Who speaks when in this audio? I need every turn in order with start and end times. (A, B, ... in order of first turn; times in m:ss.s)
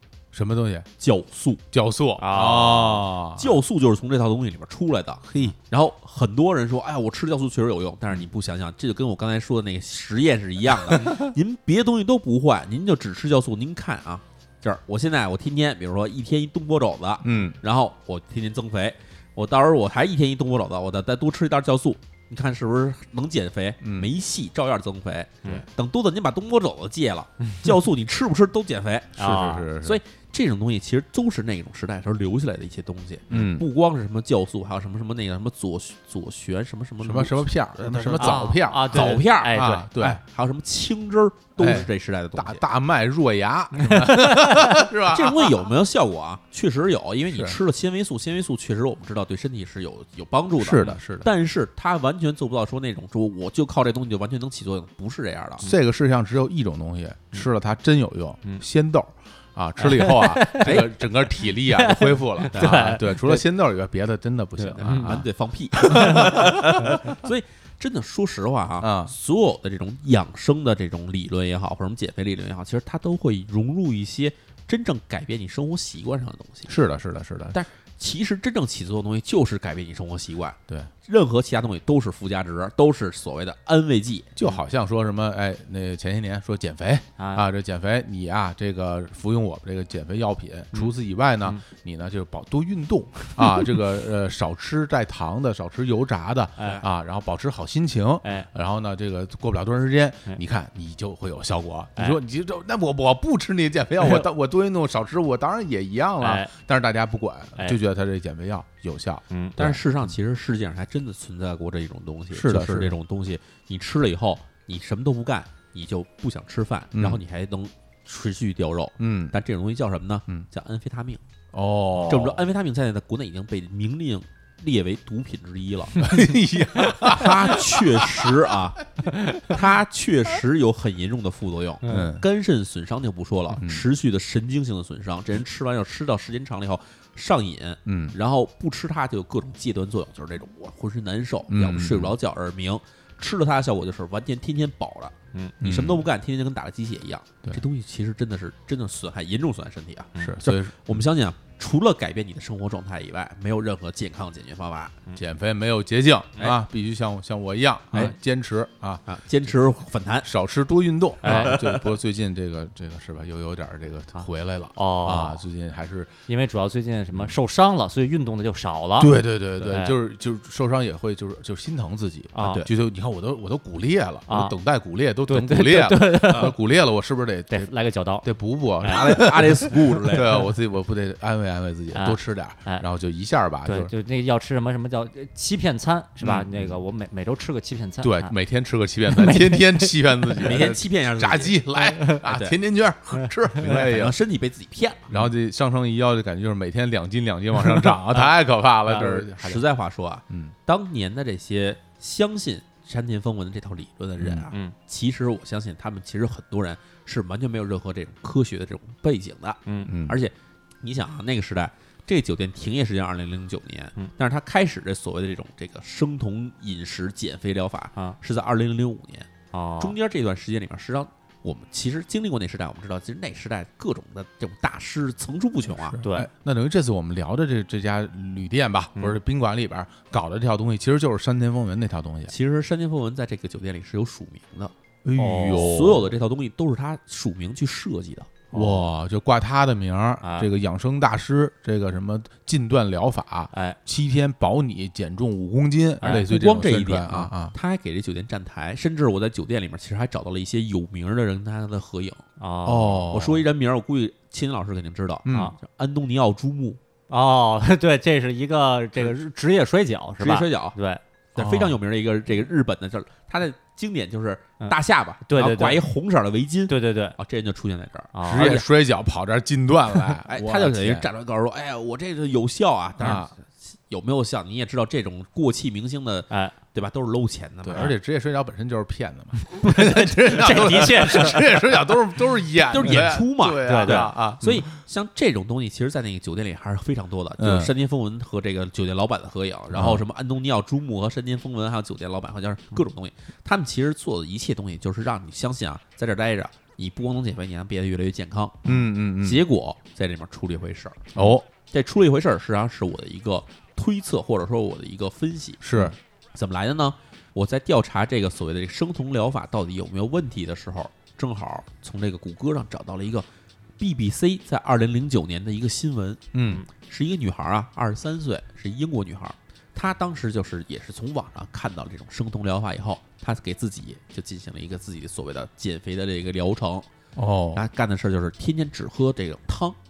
0:00.3-0:00.9 A
0:01.0-0:01.6 B
0:01.7-0:03.6 A
0:02.2-0:03.0 C
0:02.7-0:29.2 B
0:05.3-0:05.6 A
0:17.2-0:17.6 A
0:23.8-0:24.1 A
0:29.2-0:29.7 C
0:29.2-0:30.0 A
0:29.8-0:42.6 B
0:33.3-0:33.7 A
0:37.0-0:40.2 A
0:38.2-0:40.2 C
0:41.6-0:45.7 A
0:43.8-0:44.7 C
0:45.0-0:55.7 B
0:47.3-0:47.6 A
0:50.6-0:51.3 A
0:55.6-1:05.3 A
0:59.8-1:00.9 C
1:00.6-1:00.9 B
1:01.4-1:03.4 C
1:02.5-1:03.0 B
1:04.6-1:05.3 C
1:04.8-1:16.7 B
1:05.8-1:07.1 A
1:05.8-1:06.3 C
1:08.8-1:09.1 A
1:16.7-1:17.6 A
1:17.5-1:24.3 B
1:24.4-1:49.8 A
1:27.2-1:27.5 C
1:36.6-1:36.8 C
1:38.2-1:38.5 C
1:46.2-1:46.5 C
1:49.3-1:49.6 C
1:49.6-2:01.2 B
1:52.3-1:53.0 A
1:56.9-1:57.2 A
1:59.0-1:59.4 A
2:01.5-2:02.5 A
2:02.0-2:06.2 B
2:06.0-2:08.3 A
2:07.0-2:35.0 B
2:11.9-2:12.3 A
2:13.6-2:13.8 A
2:17.9-2:18.2 A
2:21.5-2:22.2 A
2:25.6-2:26.1 A
2:30.2-2:31.0 A
2:35.2-2:39.0 A
2:39.1-2:40.3 B
2:40.2-2:46.1 A
2:41.2-2:41.6 C
2:41.2-2:41.9 B
2:44.2-2:45.4 C
2:46.3-2:50.0 C
2:49.0-2:57.7 A
2:52.3-2:52.7 C
2:52.4-2:52.7 B
2:54.3-2:54.6 C
2:55.3-2:56.6 C
2:57.5-2:58.3 C
2:58.2-3:03.9 A
2:58.8-2:59.3 C
2:58.9-3:00.5 B
3:01.9-3:02.8 C
3:03.6-3:08.3 C
3:06.2-3:06.8 A
3:08.0-3:14.2 A
3:09.1-3:10.5 C
3:10.4-3:11.6 B
3:12.2-3:12.6 B
3:13.6-3:15.2 B
3:15.1-3:19.7 A
3:18.9-3:46.0 B
3:20.3-3:20.6 A
3:24.2-3:24.5 A
3:29.7-3:29.9 C
3:29.9-3:30.2 A
3:39.5-3:40.0 C
3:45.9-3:52.3 A
3:46.0-3:46.3 C
3:52.3-3:54.7 B
3:55.0-3:56.1 A
3:55.2-3:55.9 C
3:55.5-3:58.4 B
3:58.5-3:58.9 C
3:58.5-4:07.6 A
4:00.2-4:00.5 C
4:03.5-4:03.8 C
4:06.0-4:06.3 C
4:06.0-4:12.2 B
4:12.4-4:13.1 C
4:12.6-4:13.5 A
4:13.1-4:16.8 B
4:15.2-4:15.5 A
4:17.1-4:21.0 C
4:20.2-4:20.8 B
4:21.4-4:28.7 B
4:21.4-4:21.8 A
4:24.6-4:25.8 C
4:26.7-4:27.2 C
4:28.1-4:28.6 C
4:28.2-4:31.1 A
4:30.2-4:37.9 B
4:33.0-4:33.3 A
4:36.3-4:36.6 C
4:37.6-4:44.7 A
4:39.5-4:41.6 C
4:40.4-4:41.4 B
4:42.6-5:13.3 B
4:43.6-4:44.2 C
4:47.4-4:47.7 A
4:49.7-4:50.0 A
4:58.6-4:59.4 A
5:01.2-5:01.4 A
5:05.6-5:06.0 A
5:13.8-5:26.9 B
5:16.3-5:16.6 A
5:27.2-5:27.6 A
5:27.5-5:29.8 B